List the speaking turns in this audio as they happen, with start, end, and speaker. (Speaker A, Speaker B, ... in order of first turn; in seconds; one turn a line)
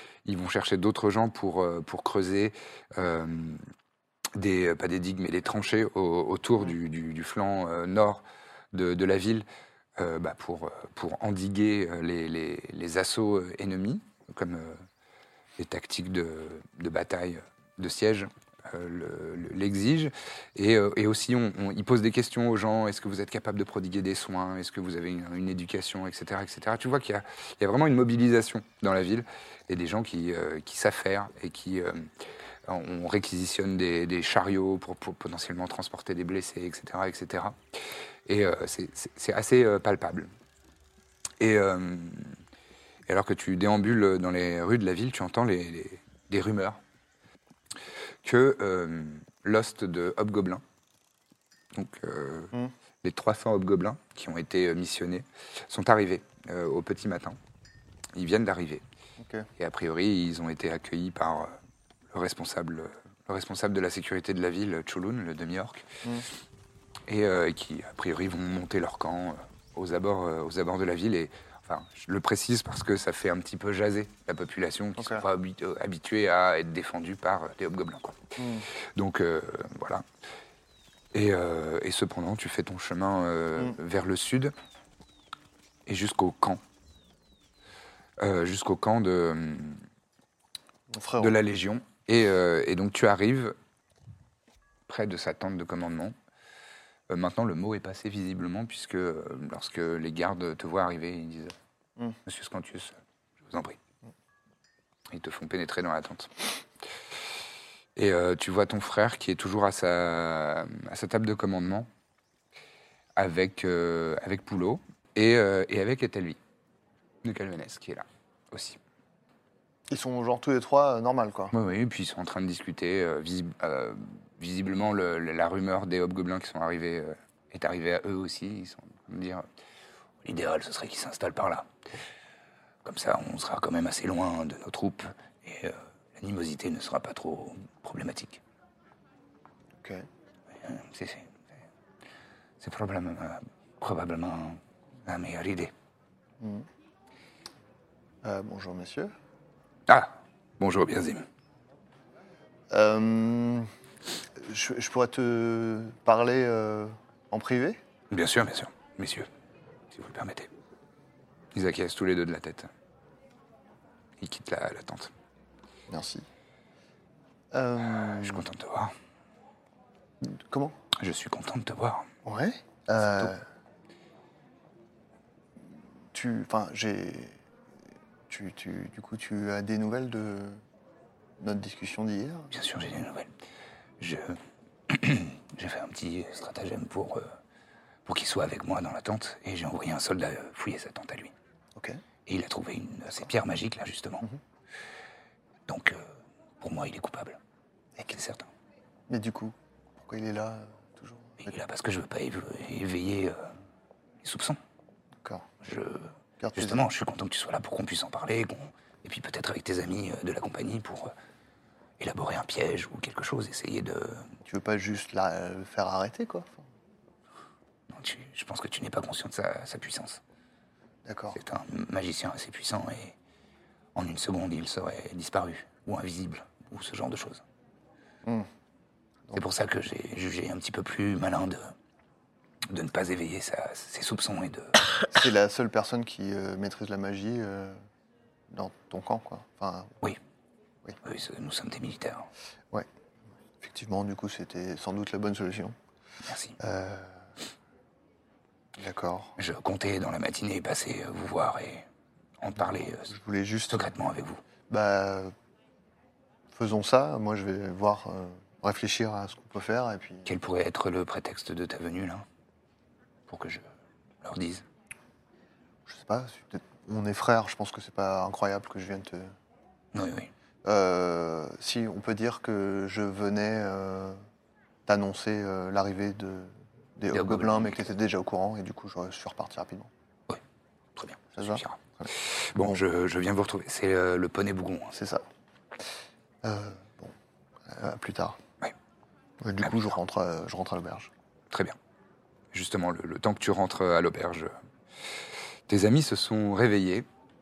Speaker A: 0.2-3.6
Speaker A: 4.3-9.4
Speaker A: 10.0-14.8
Speaker A: 15.6-32.1
Speaker A: 32.7-37.6
Speaker A: 38.3-40.3
Speaker A: 41.4-42.4
Speaker A: 43.1-46.8
Speaker A: 48.2-50.6
Speaker A: 51.7-57.4
Speaker A: 58.1-58.8
Speaker B: 59.2-59.5
Speaker A: 59.6-61.5
Speaker A: 62.1-65.9
Speaker A: 67.1-78.4
Speaker B: 75.0-75.3
Speaker B: 78.4-78.7
Speaker A: 79.0-80.0
Speaker A: 81.1-84.5
Speaker A: 85.9-86.6
Speaker A: 88.2-89.8
Speaker B: 90.9-91.4
Speaker A: 91.2-93.5
Speaker A: 94.9-96.1
Speaker A: 97.1-101.5
Speaker A: 102.3-102.9
Speaker A: 103.5-103.8
Speaker A: 105.1-106.3
Speaker A: 108.0-111.9
Speaker A: 113.2-116.4
Speaker A: 117.2-118.8
Speaker B: 119.9-121.5
Speaker A: 121.5-129.4
Speaker A: 130.2-131.7
Speaker A: 132.8-138.4
Speaker B: 139.8-140.1
Speaker A: 140.6-141.3
Speaker A: 142.6-145.7
Speaker B: 146.4-146.7
Speaker B: 148.2-149.1
Speaker A: 149.9-151.3
Speaker B: 152.7-153.7
Speaker B: 154.4-157.8
Speaker A: 158.1-159.3
Speaker A: 159.9-160.5
Speaker A: 161.5-162.7
Speaker A: 164.2-165.1
Speaker B: 165.9-166.3
Speaker B: 167.5-168.5
Speaker A: 167.9-168.9
Speaker B: 170.2-170.8
Speaker A: 171.0-172.1
Speaker B: 172.2-173.4
Speaker A: 173.0-173.3
Speaker B: 176.1-177.4
Speaker B: 178.3-180.6
Speaker B: 181.4-182.5
Speaker A: 182.5-183.3
Speaker A: 184.0-187.3
Speaker A: 188.1-191.3
Speaker B: 191.8-192.0
Speaker A: 192.3-194.3
Speaker A: 195.7-196.1
Speaker A: 196.6-197.4
Speaker A: 198.1-198.5
Speaker B: 199.1-201.5
Speaker A: 201.4-203.5
Speaker A: 204.2-204.6
Speaker A: 205.6-211.1
Speaker B: 206.4-206.9
Speaker A: 212.0-214.3
Speaker B: 214.4-216.7
Speaker A: 217.9-220.2
Speaker B: 221.1-221.4
Speaker A: 221.3-223.2
Speaker A: 224.0-227.4
Speaker A: 229.3-231.7
Speaker A: 232.7-234.8
Speaker B: 235.1-237.8
Speaker B: 238.5-239.9
Speaker A: 241.0-242.3
Speaker B: 243.6-245.8
Speaker A: 246.2-246.6
Speaker B: 246.6-247.2
Speaker B: 248.8-249.3
Speaker A: 249.4-251.9
Speaker A: 252.4-253.1
Speaker B: 252.6-253.9
Speaker A: 253.7-254.4
Speaker B: 254.7-255.3
Speaker B: 256.5-260.3
Speaker A: 260.3-262.2
Speaker A: 263.3-263.6
Speaker A: 264.2-264.6
Speaker B: 265.9-269.3
Speaker A: 269.9-270.3
Speaker B: 270.6-274.2
Speaker B: 274.9-279.9
Speaker A: 277.1-277.9
Speaker A: 281.0-285.0
Speaker B: 281.4-282.8
Speaker B: 284.9-285.2
Speaker B: 286.4-287.1
Speaker B: 287.7-288.4
Speaker B: 289.4-291.1
Speaker A: 289.6-289.9
Speaker A: 292.5-294.5
Speaker A: 295.7-297.1